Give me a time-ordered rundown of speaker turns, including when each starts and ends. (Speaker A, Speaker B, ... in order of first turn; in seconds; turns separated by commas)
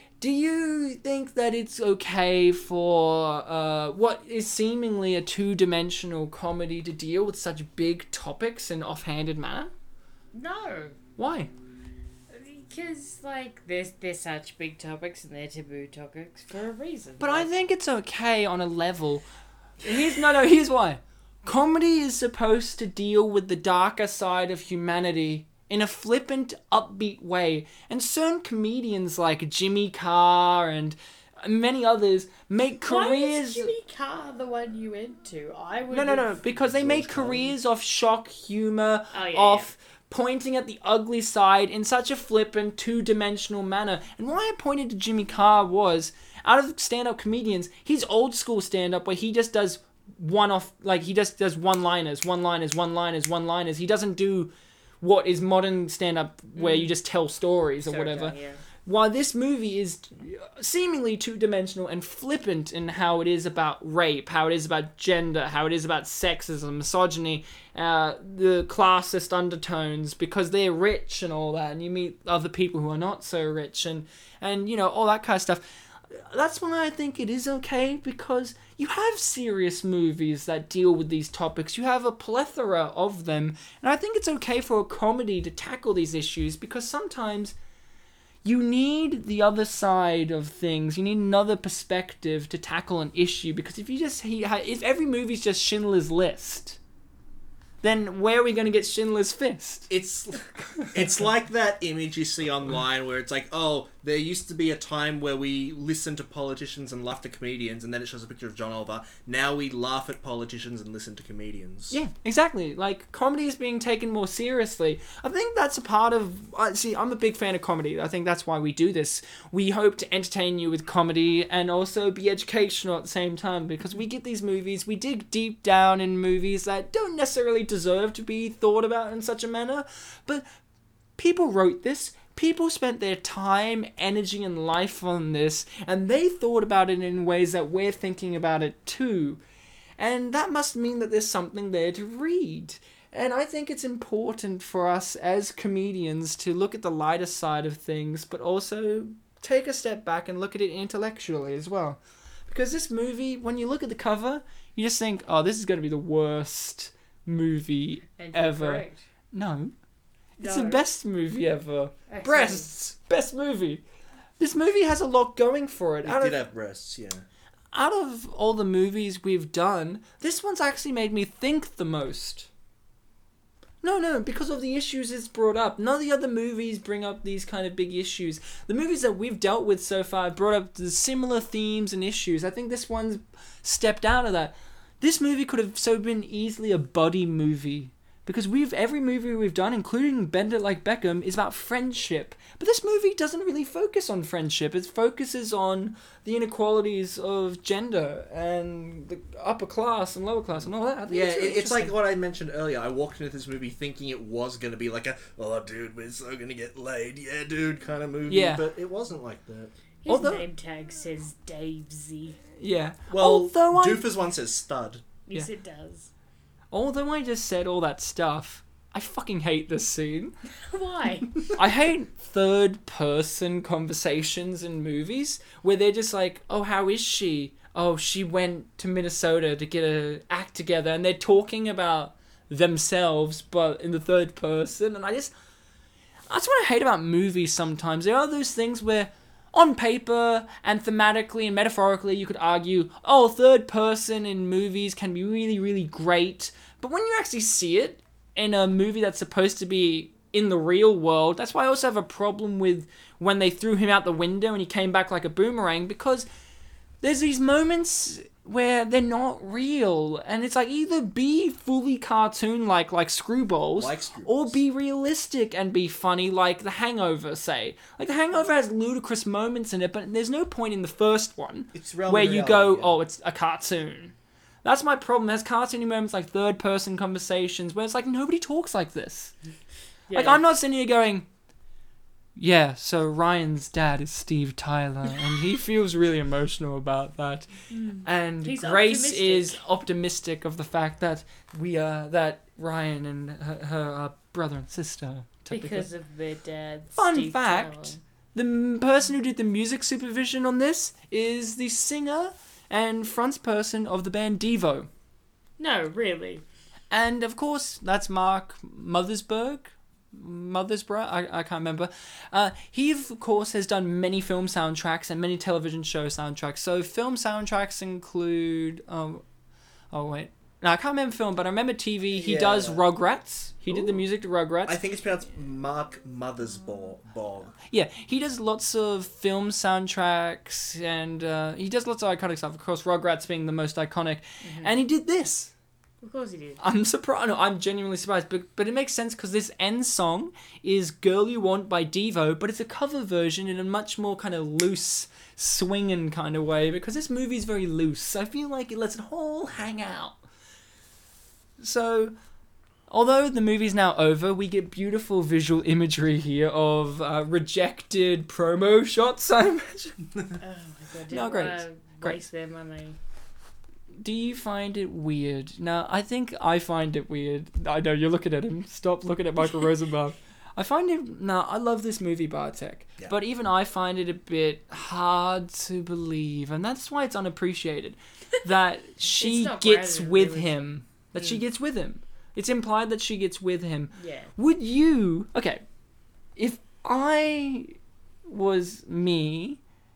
Speaker A: 0.2-9.7, Speaker B: 10.3-11.0, Speaker A: 11.2-11.5, Speaker B: 12.3-17.5, Speaker A: 17.2-19.3, Speaker A: 19.8-33.7, Speaker B: 32.8-36.3, Speaker A: 35.9-87.5, Speaker C: 36.5-37.5, Speaker B: 39.1-39.7, Speaker B: 56.6-56.9, Speaker B: 57.9-58.6, Speaker A: 88.4-96.8, Speaker A: 97.8-99.9, Speaker C: 99.9-112.0, Speaker A: 111.9-130.4, Speaker A: 131.2-139.4, Speaker A: 140.0-152.0, Speaker A: 152.5-159.7, Speaker B: 158.2-159.0, Speaker A: 160.4-163.8, Speaker B: 160.4-160.9, Speaker B: 162.1-162.7, Speaker A: 164.4-166.4, Speaker C: 166.0-167.3, Speaker A: 167.7-172.5, Speaker A: 173.8-202.0, Speaker C: 201.1-209.7, Speaker A: 208.3-208.7, Speaker B: 210.0-212.4, Speaker A: 210.1-210.5, Speaker A: 212.6-214.1, Speaker C: 213.1-215.1, Speaker B: 215.3-216.1, Speaker A: 216.7-220.4, Speaker B: 220.7-221.5, Speaker A: 221.6-235.3, Speaker A: 236.3-256.3, Speaker A: 257.0-279.3, Speaker C: 263.8-264.6, Speaker C: 271.7-273.0, Speaker B: 280.1-280.4, Speaker A: 280.1-281.3, Speaker A: 282.4-287.5, Speaker B: 287.7-289.6, Speaker A: 288.0-295.9, Speaker B: 295.5-298.0, Speaker A: 297.0-304.9, Speaker B: 305.6-306.4, Speaker A: 306.9-319.2, Speaker A: 319.9-324.8, Speaker C: 322.1-322.9, Speaker C: 323.7-324.1, Speaker C: 324.7-327.6, Speaker A: 327.7-335.5, Speaker B: 334.4-334.7, Speaker B: 336.0-336.6, Speaker A: 336.6-350.2, Speaker A: 351.6-352.1, Speaker A: 352.9-360.0, Speaker B: 360.4-363.0, Speaker A: 361.1-362.2, Speaker A: 364.0-385.6, Speaker B: 379.0-380.6, Speaker B: 383.9-384.3, Speaker A: 386.4-387.8, Speaker A: 388.3-389.6